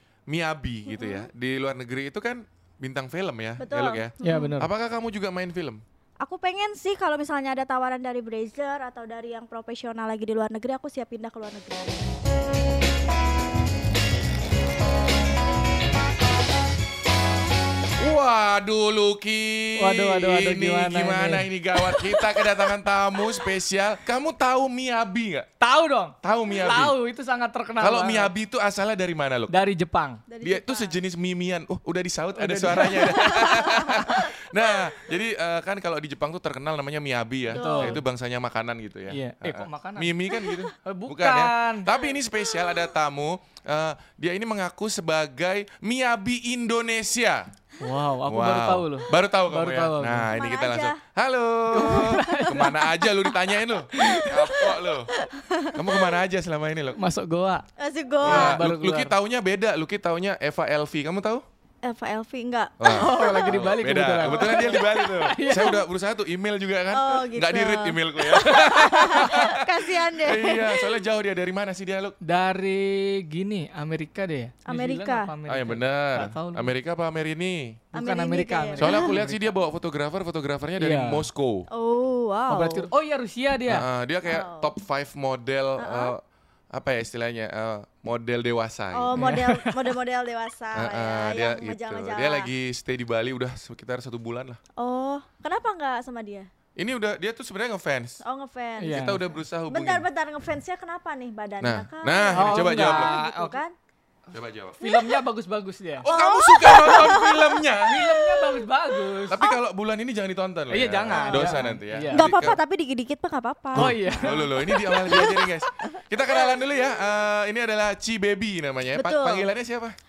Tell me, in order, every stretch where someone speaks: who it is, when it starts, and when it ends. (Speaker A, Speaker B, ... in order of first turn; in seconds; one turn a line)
Speaker A: 0.3-5.8
Speaker B: 0.9-1.3
Speaker B: 3.6-4.6
Speaker C: 4.2-4.7
Speaker B: 6.2-12.2
Speaker A: 18.0-25.5
Speaker C: 19.8-22.3
Speaker C: 25.6-28.3
Speaker A: 26.2-26.9
Speaker A: 27.8-29.5
Speaker C: 29.5-30.2
Speaker B: 30.3-31.0
Speaker A: 30.4-47.5
Speaker C: 32.4-34.2
Speaker B: 33.4-34.2
Speaker C: 37.5-38.0
Speaker B: 37.5-38.0
Speaker C: 39.1-40.2
Speaker C: 40.7-41.9
Speaker C: 47.8-50.3
Speaker A: 48.3-55.1
Speaker B: 50.4-51.0
Speaker C: 51.7-53.1
Speaker B: 51.8-52.7
Speaker C: 53.9-54.6
Speaker B: 54.0-56.2
Speaker A: 55.7-57.0
Speaker C: 56.9-57.6
Speaker B: 57.8-58.6
Speaker C: 58.2-59.1
Speaker A: 58.2-61.4
Speaker B: 61.8-63.5
Speaker A: 62.8-72.2
Speaker C: 62.9-65.8
Speaker B: 64.2-64.8
Speaker B: 66.9-70.9
Speaker C: 72.2-76.7
Speaker B: 74.7-75.3
Speaker A: 75.5-77.8
Speaker C: 77.9-79.6
Speaker B: 77.9-79.1
Speaker A: 78.8-81.7
Speaker C: 80.8-81.3
Speaker B: 81.7-82.9
Speaker C: 82.5-83.9
Speaker A: 83.7-86.2
Speaker B: 84.3-84.7
Speaker B: 85.8-86.1
Speaker A: 86.7-89.2
Speaker B: 88.9-92.5
Speaker C: 89.2-90.0
Speaker A: 90.8-94.6
Speaker B: 94.8-96.5
Speaker A: 96.8-98.2
Speaker B: 98.2-99.2
Speaker C: 98.8-99.3
Speaker A: 98.9-100.1
Speaker B: 99.7-103.8
Speaker A: 101.6-103.2
Speaker C: 102.3-103.6
Speaker A: 104.3-104.8
Speaker C: 104.8-106.1
Speaker A: 106.0-108.6
Speaker B: 106.1-107.6
Speaker C: 107.8-109.4
Speaker A: 109.3-112.6
Speaker C: 110.7-112.3
Speaker B: 111.1-116.8
Speaker C: 113.8-115.4
Speaker A: 113.8-120.0
Speaker B: 119.0-119.5